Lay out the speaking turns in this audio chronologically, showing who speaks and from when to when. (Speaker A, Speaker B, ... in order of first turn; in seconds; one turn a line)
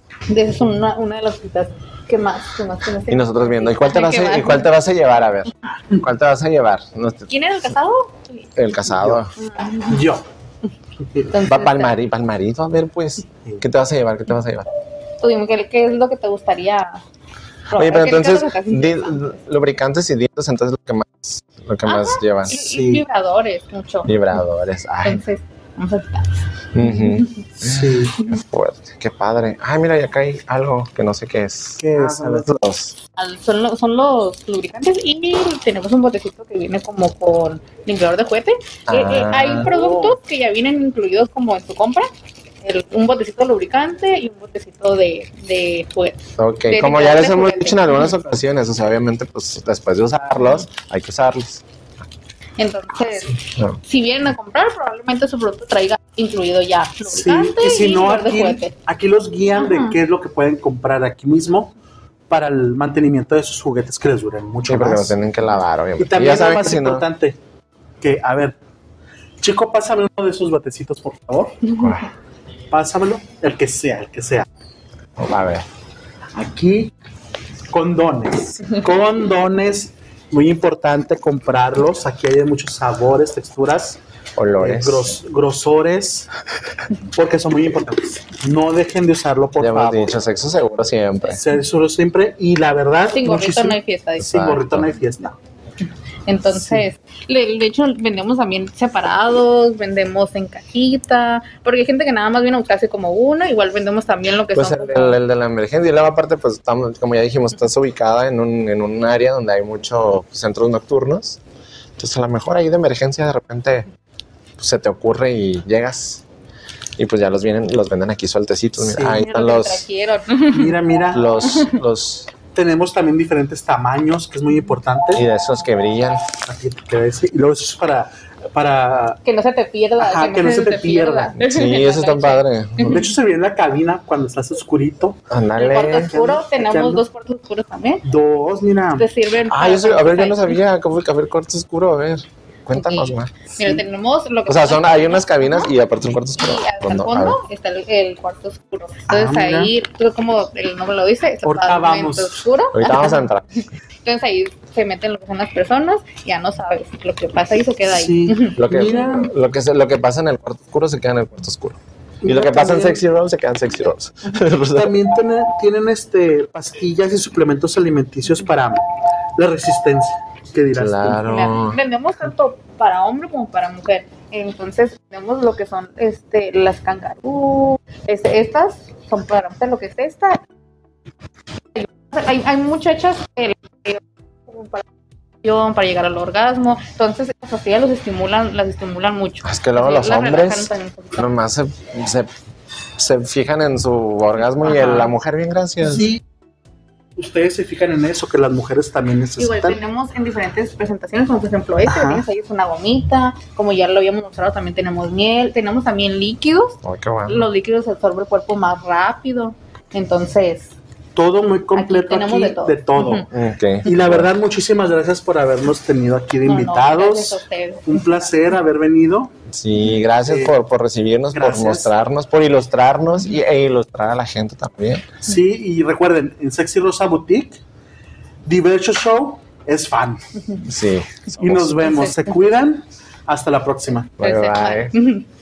Speaker A: 0.3-4.7
Speaker B: 3.1-7.3
Speaker A: 7.3-8.5
Speaker B: 8.6-9.3
Speaker A: 9.3-10.0
Speaker C: 9.8-10.2
Speaker C: 11.0-11.3
Speaker A: 11.3-11.9
Speaker B: 11.4-14.7
Speaker A: 15.2-17.0
Speaker A: 17.7-19.4
Speaker B: 17.7-22.7
Speaker A: 21.8-24.1
Speaker C: 22.6-23.0
Speaker B: 24.0-25.2
Speaker A: 25.0-27.4
Speaker B: 26.7-33.0
Speaker C: 27.6-28.2
Speaker C: 31.8-32.5
Speaker A: 33.2-42.1
Speaker B: 38.9-39.7
Speaker C: 39.6-40.2
Speaker A: 42.6-48.1
Speaker B: 46.4-51.6
Speaker A: 52.6-58.7
Speaker C: 57.0-61.7
Speaker A: 59.5-60.0
Speaker C: 62.3-65.1
Speaker B: 64.7-67.0
Speaker C: 66.0-67.4
Speaker C: 68.0-68.6
Speaker C: 69.4-71.7
Speaker B: 71.7-72.1
Speaker C: 72.7-74.5
Speaker B: 75.2-75.7
Speaker C: 76.3-76.9
Speaker C: 77.7-84.0
Speaker B: 84.3-85.1
Speaker C: 84.6-86.3
Speaker C: 87.1-90.1
Speaker B: 89.6-91.4
Speaker C: 91.3-95.3
Speaker A: 93.1-94.4
Speaker B: 94.2-94.9
Speaker A: 96.3-105.2
Speaker C: 96.5-96.8
Speaker B: 104.5-111.4
Speaker B: 112.0-113.9
Speaker B: 114.6-116.2
Speaker B: 117.0-119.8
Speaker C: 118.8-119.3
Speaker A: 119.1-120.8
Speaker C: 120.5-121.5
Speaker B: 121.1-122.3
Speaker C: 122.5-125.2
Speaker B: 125.1-126.2
Speaker C: 126.4-129.2
Speaker A: 129.2-133.0
Speaker C: 130.0-131.3
Speaker B: 131.3-133.0
Speaker C: 132.8-135.2
Speaker B: 135.3-136.1
Speaker A: 135.6-138.0
Speaker C: 136.0-137.0
Speaker C: 138.0-139.1
Speaker A: 139.0-140.6
Speaker B: 139.5-143.3
Speaker A: 142.7-145.7
Speaker B: 144.5-147.4
Speaker A: 146.4-153.2
Speaker C: 149.1-149.7
Speaker C: 151.4-152.4
Speaker B: 152.7-153.6
Speaker A: 154.0-158.6
Speaker C: 157.9-159.3
Speaker B: 158.6-164.9
Speaker C: 162.2-163.0
Speaker C: 164.7-168.8
Speaker C: 169.3-171.2
Speaker B: 170.7-171.8
Speaker A: 171.2-180.4
Speaker A: 181.7-184.8
Speaker A: 185.4-191.3
Speaker B: 189.4-192.3
Speaker B: 192.9-196.1
Speaker A: 194.6-195.1
Speaker C: 195.9-196.2
Speaker C: 197.2-199.8
Speaker A: 199.4-210.7
Speaker C: 201.8-202.2
Speaker B: 206.8-207.4
Speaker C: 211.2-213.3
Speaker A: 211.7-213.3
Speaker B: 213.1-214.3
Speaker C: 213.8-219.3
Speaker A: 216.4-218.2
Speaker B: 219.5-225.1
Speaker C: 220.2-220.5
Speaker C: 221.3-221.9
Speaker C: 225.2-227.6
Speaker C: 228.4-230.2
Speaker B: 230.6-232.0
Speaker C: 231.4-234.1
Speaker A: 231.8-232.1
Speaker B: 234.2-234.9
Speaker A: 234.2-235.2